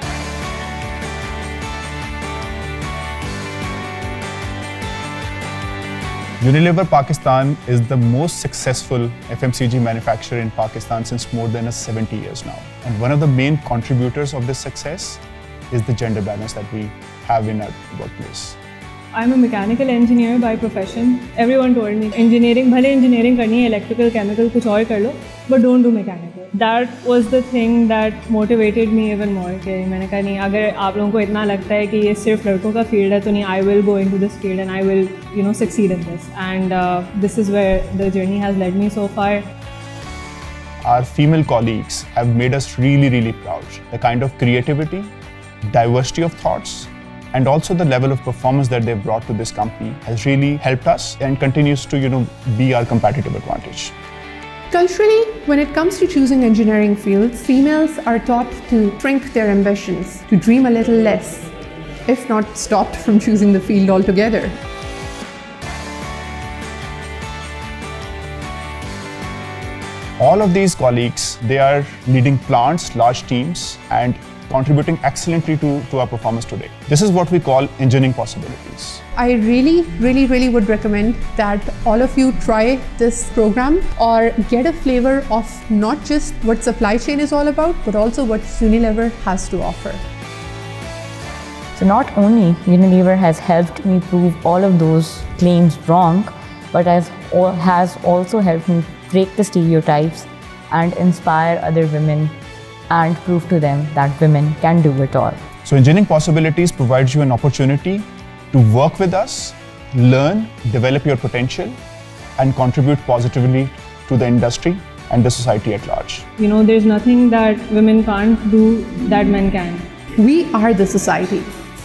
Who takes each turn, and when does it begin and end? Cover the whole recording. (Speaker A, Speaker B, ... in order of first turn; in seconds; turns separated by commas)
Speaker A: 6.4-18.6, Speaker B: 19.1-39.4, Speaker A: 40.8-45.1, Speaker A: 45.7-53.9, Speaker C: 54.7-61.5, Speaker C: 62.1-64.6, Speaker A: 70.2-79.0, Speaker C: 79.2-90.0, Speaker D: 91.8-102.3, Speaker D: 102.9-105.4, Speaker A: 105.7-111.8, Speaker A: 112.4-116.2, Speaker B: 116.4-119.9, Speaker C: 120.2-121.5